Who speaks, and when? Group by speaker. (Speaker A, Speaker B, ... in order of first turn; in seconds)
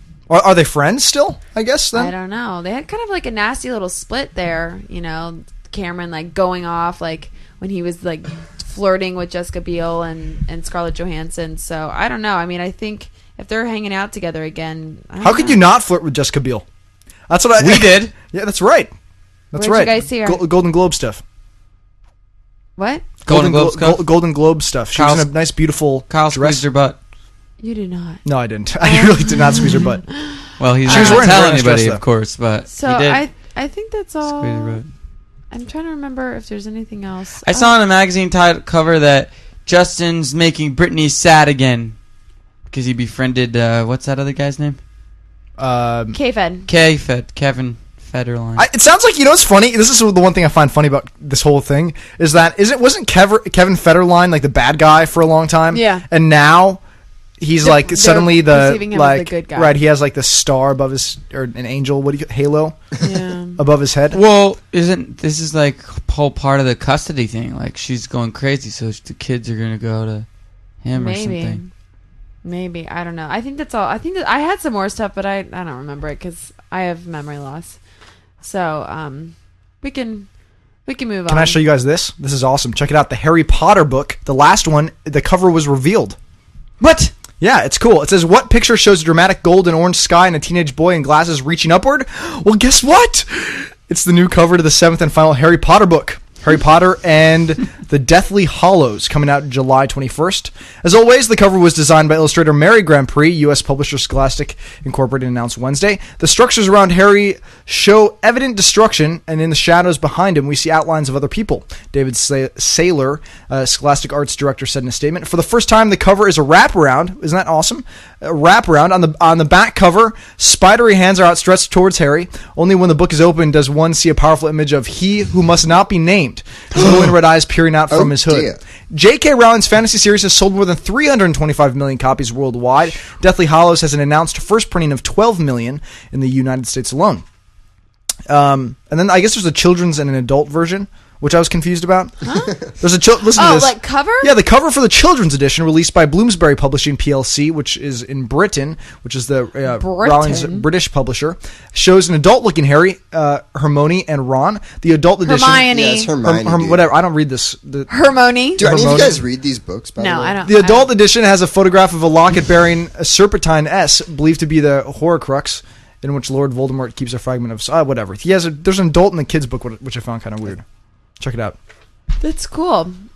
Speaker A: 0.3-2.1, 15.2-16.6, 17.3-18.9, 19.5-21.2, 23.2-26.6, 28.2-30.0, 30.9-32.0, 45.6-46.1, 48.6-56.8, 57.4-62.9, 63.6-64.2, 81.3-86.2, 87.4-137.2, 138.3-157.9, 158.6-159.2, 160.4-170.6, 171.2-171.6
Speaker B: 1.9-15.7, 19.5-20.4, 22.8-23.1, 27.6-28.2, 28.8-31.3, 32.7-34.8, 35.5-37.7, 46.1-46.7, 55.7-56.0, 57.6-59.8, 63.0-63.6, 70.9-71.7, 72.4-77.8, 78.4-80.3, 80.8-81.6, 142.2-142.6, 143.3-144.3, 149.7-150.7, 155.2-156.1, 157.9-158.6, 160.0-160.9, 172.2-173.0
Speaker C: 17.6-18.1, 23.2-24.1, 24.9-25.3, 26.1-27.0, 30.6-33.2, 34.2-34.9, 37.4-41.9, 42.7-44.8, 46.7-48.7, 64.1-70.2, 70.8-71.6, 86.8-87.1
Speaker D: 126.7-127.1, 127.9-128.6, 155.7-156.8, 158.6-160.4